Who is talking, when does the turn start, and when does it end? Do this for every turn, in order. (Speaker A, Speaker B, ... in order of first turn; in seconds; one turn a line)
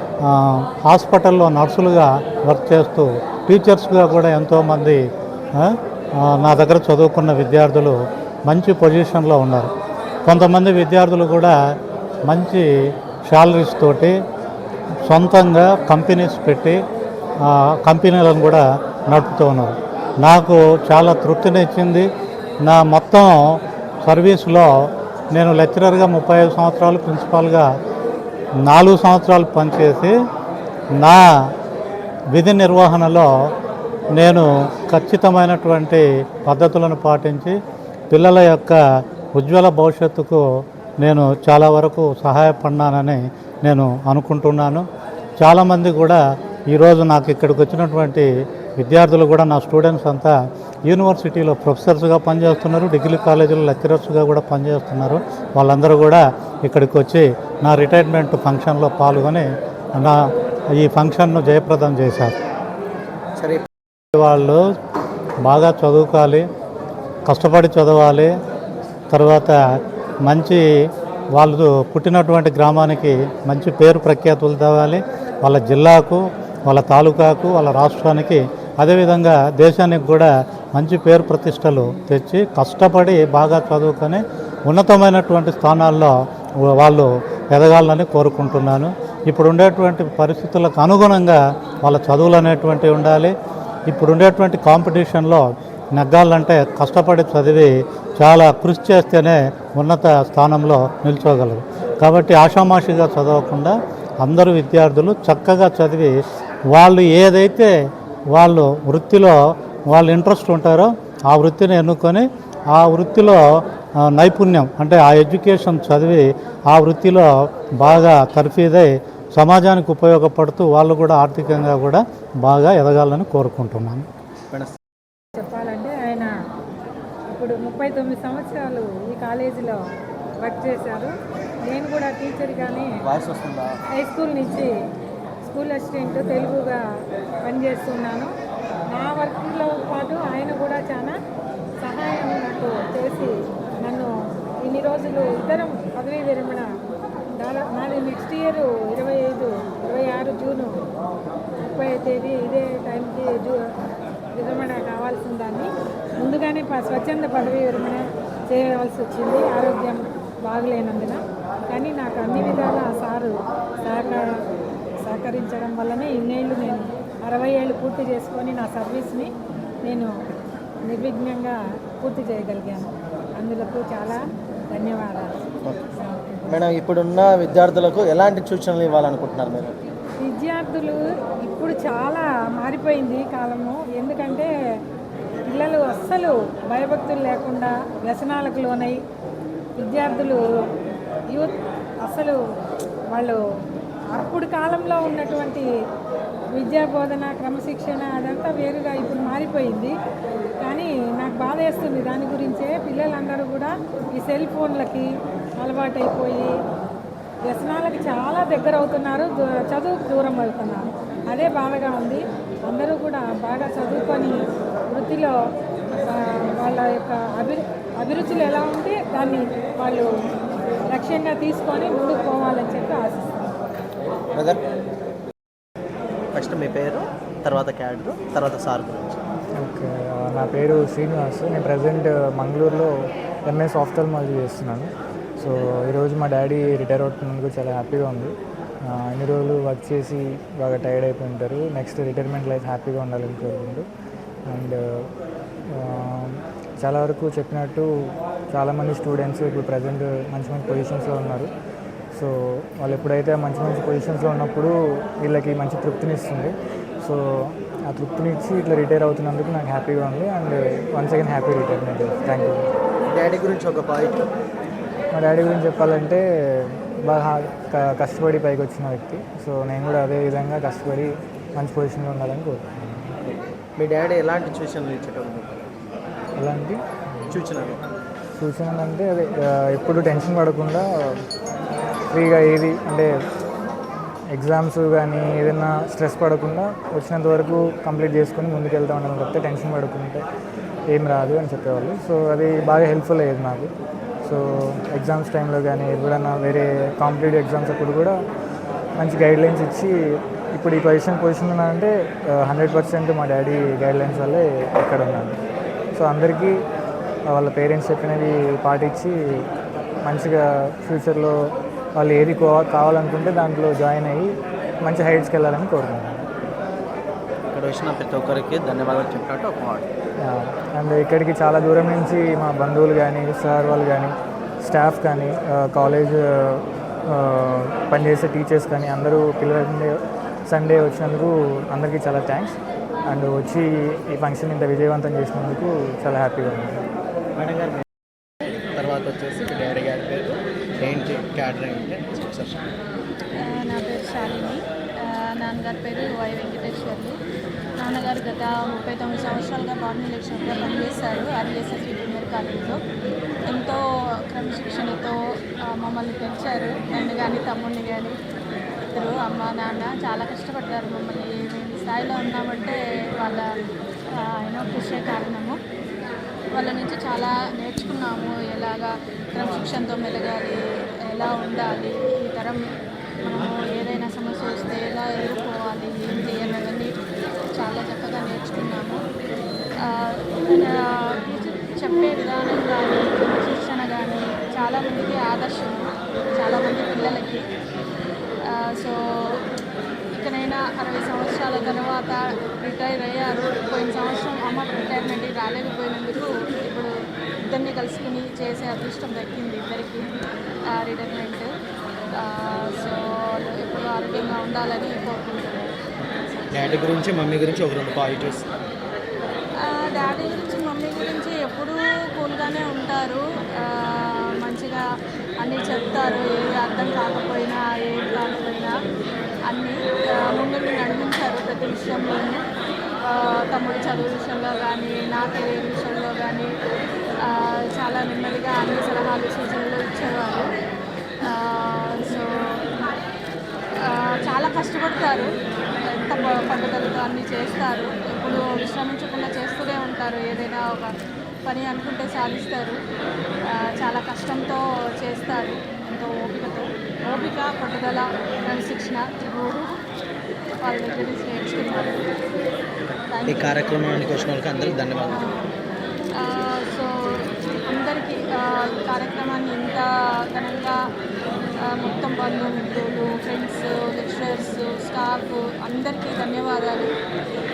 Speaker A: 0.2-5.0
Speaker A: 5.5-9.7
Speaker A: 10.2-11.6
Speaker A: 12.2-12.7
Speaker A: 13.3-14.1
Speaker A: 15.0-16.8
Speaker A: 17.4-22.1
Speaker A: 22.6-24.7
Speaker A: 25.3-27.7
Speaker A: 28.6-30.1
Speaker A: 31.0-31.2
Speaker A: 32.3-33.3
Speaker A: 34.1-37.5
Speaker A: 38.1-38.8
Speaker A: 39.3-40.4
Speaker A: 41.0-44.9
Speaker A: 45.4-50.3
Speaker A: 50.9-60.2
Speaker A: 60.7-62.3
Speaker B: 63.4-63.6
Speaker A: 64.1-64.6
Speaker A: 65.4-66.5
Speaker A: 67.2-68.3
Speaker A: 69.1-69.6
Speaker A: 70.2-70.6
Speaker A: 71.3-86.1
Speaker A: 86.6-93.3
Speaker A: 93.9-106.2
Speaker A: 106.7-107.7
Speaker A: 108.3-109.4
Speaker A: 109.9-113.4
Speaker A: 114.0-117.3
Speaker A: 117.8-124.0
Speaker C: 125.3-126.3
Speaker C: 127.3-129.8
Speaker C: 130.4-131.1
Speaker C: 131.6-132.9
Speaker B: 133.0-133.7
Speaker C: 133.9-134.7
Speaker C: 135.4-136.8
Speaker C: 137.4-138.3
Speaker C: 138.9-141.2
Speaker C: 141.8-144.1
Speaker C: 144.6-146.7
Speaker C: 147.3-150.8
Speaker C: 151.6-153.6
Speaker C: 154.3-164.2
Speaker C: 165.0-169.3
Speaker C: 169.8-170.1
Speaker C: 170.8-175.4
Speaker B: 176.5-179.7
Speaker C: 180.2-184.5
Speaker C: 185.4-189.0
Speaker C: 189.8-190.4
Speaker C: 191.3-192.4
Speaker C: 193.1-193.4
Speaker C: 194.1-195.7
Speaker C: 196.5-199.9
Speaker C: 200.6-206.5
Speaker C: 207.4-214.3
Speaker C: 214.9-215.3
Speaker C: 216.0-220.1
Speaker C: 220.9-223.3
Speaker B: 224.3-224.6
Speaker B: 226.3-229.2
Speaker D: 229.6-232.9
Speaker D: 233.4-243.9
Speaker D: 244.5-245.1
Speaker D: 245.7-251.5
Speaker D: 252.1-262.6
Speaker B: 263.1-264.2
Speaker D: 265.1-272.9
Speaker B: 273.8-275.6
Speaker D: 276.4-276.8
Speaker B: 277.3-277.8
Speaker D: 278.4-281.2
Speaker D: 282.1-283.1
Speaker D: 284.3-290.2
Speaker D: 290.9-293.7
Speaker D: 294.2-298.1
Speaker D: 299.0-299.9
Speaker D: 300.5-305.4
Speaker D: 305.9-306.6
Speaker D: 307.3-309.2
Speaker D: 310.0-311.4
Speaker D: 311.9-316.2
Speaker B: 317.5-319.9
Speaker D: 320.2-332.6
Speaker D: 333.1-336.8
Speaker B: 337.4-337.8
Speaker B: 338.7-342.6
Speaker E: 343.3-347.2
Speaker E: 347.8-352.8
Speaker E: 353.5-358.2
Speaker E: 358.9-363.5
Speaker E: 364.1-365.6
Speaker E: 366.5-372.6
Speaker E: 373.2-376.9
Speaker E: 377.5-379.0
Speaker E: 379.8-387.4
Speaker E: 388.4-389.4
Speaker E: 390.1-396.9
Speaker E: 397.4-400.1
Speaker E: 400.7-401.5
Speaker E: 402.1-405.7
Speaker B: 406.5-408.4
Speaker E: 409.6-414.9
Speaker E: 415.4-418.7
Speaker E: 419.5-422.4
Speaker E: 423.0-426.5
Speaker E: 427.2-430.5
Speaker E: 431.2-432.7
Speaker E: 433.8-435.3
Speaker E: 435.9-440.9
Speaker E: 441.4-442.8
Speaker E: 443.5-449.8
Speaker E: 450.6-452.0
Speaker E: 453.1-453.6
Speaker B: 453.3-455.3
Speaker E: 455.1-455.4
Speaker E: 456.1-460.8
Speaker E: 461.6-466.9